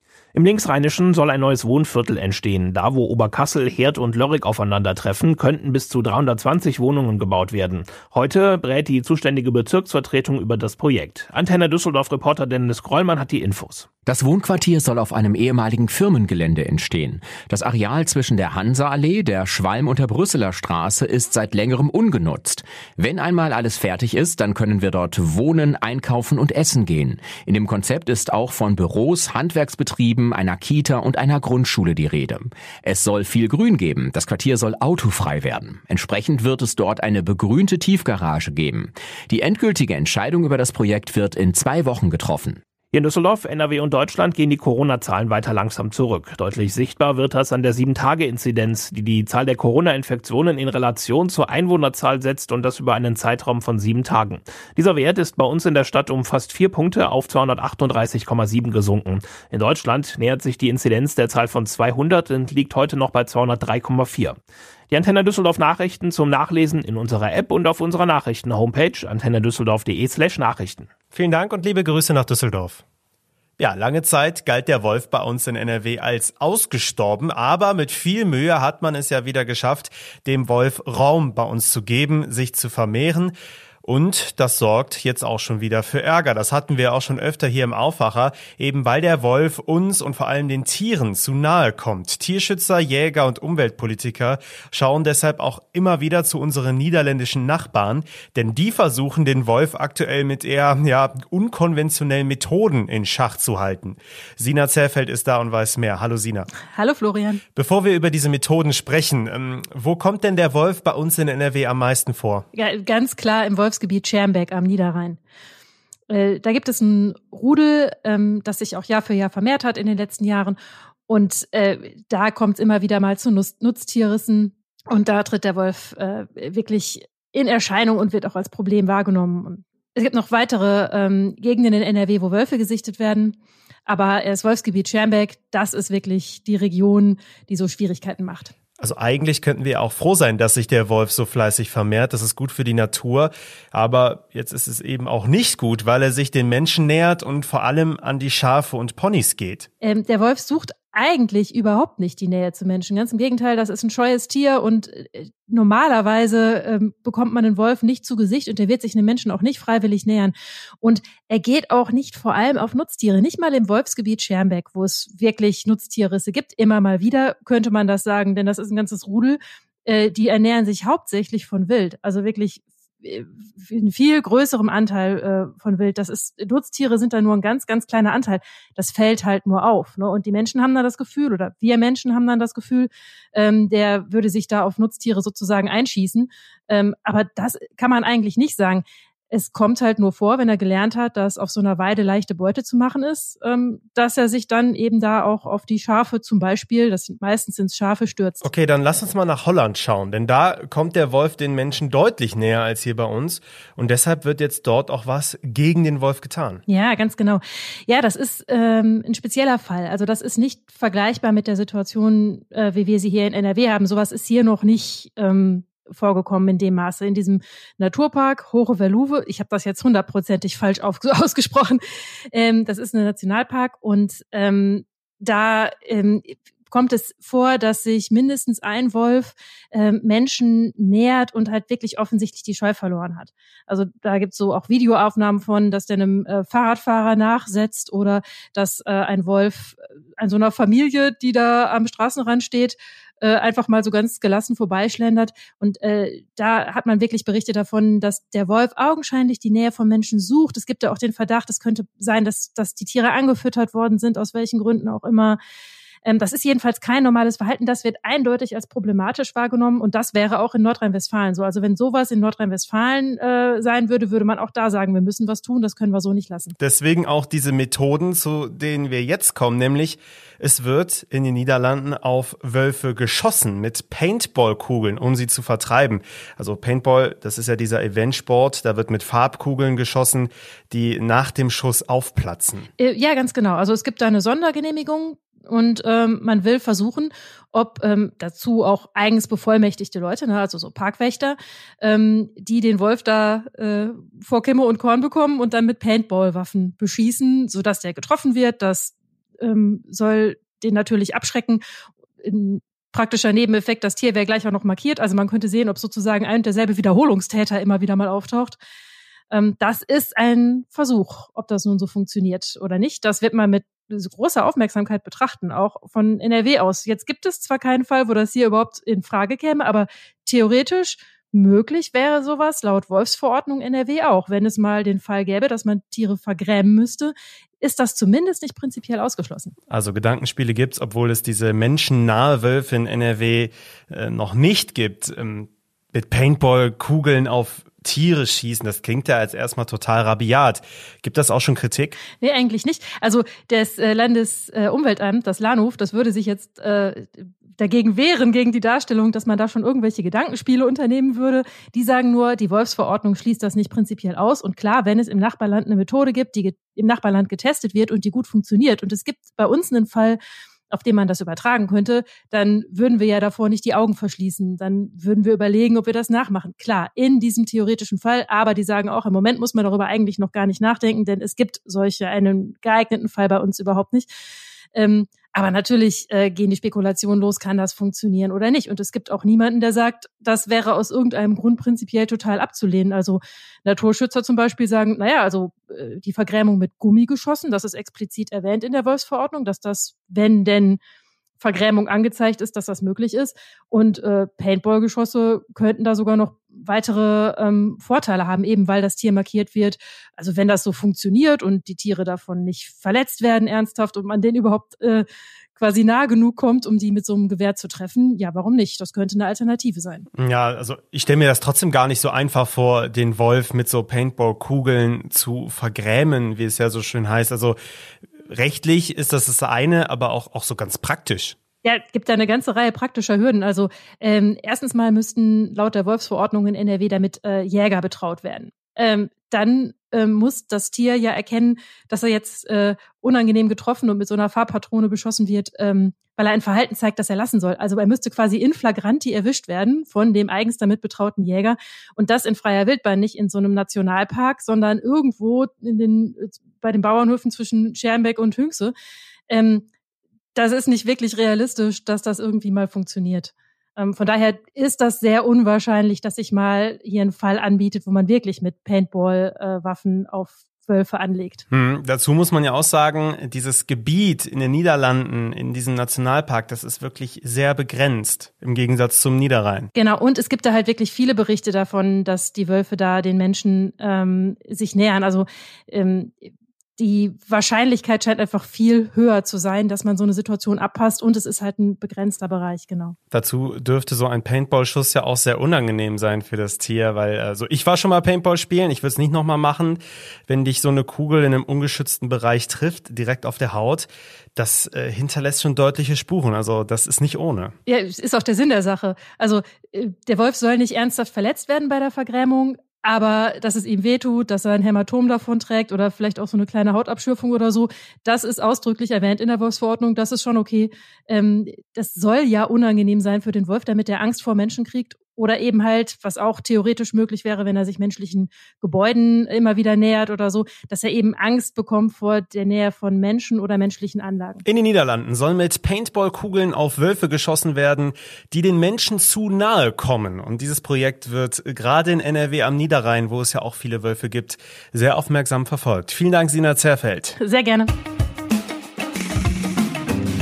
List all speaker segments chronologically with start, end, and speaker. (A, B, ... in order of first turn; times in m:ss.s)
0:00.3-0:13.9 A
0:14.0-0:42.6 B
0:42.9-1:04.3 A
1:04.9-1:10.9 A
1:11.1-1:12.8 C
1:13.6-1:46.5 C
1:46.7-1:47.4 D
1:47.5-1:52.4 C
1:52.5-1:55.2 D
1:56.1-2:00.6 D
2:01.1-2:18.5 D
2:18.8-2:29.7 C
2:29.8-3:18.4 D
3:18.4-3:26.6 C
3:26.7-4:15.4 D
4:16.0-4:26.5 D
4:26.6-4:42.7 C
4:42.8-5:01.6 D
5:02.2-5:08.6 D
5:09.3-5:29.5 D
5:29.7-5:42.0 C
5:42.2-6:00.2 D
6:00.7-6:14.1 D
6:14.7-6:30.8 D
6:31.4-6:45.0 D
6:45.6-6:50.0 D
6:50.2-6:57.6 C
6:58.3-7:01.4 C
7:01.6-7:28.7 D
7:29.3-7:29.6 D
7:30.3-7:41.4 D
7:41.5-7:49.7 C
7:49.7-8:02.9 D
8:03.1-8:17.5 C
8:17.6-8:44.4 D
8:44.4-8:57.2 C
8:57.2-8:57.7 D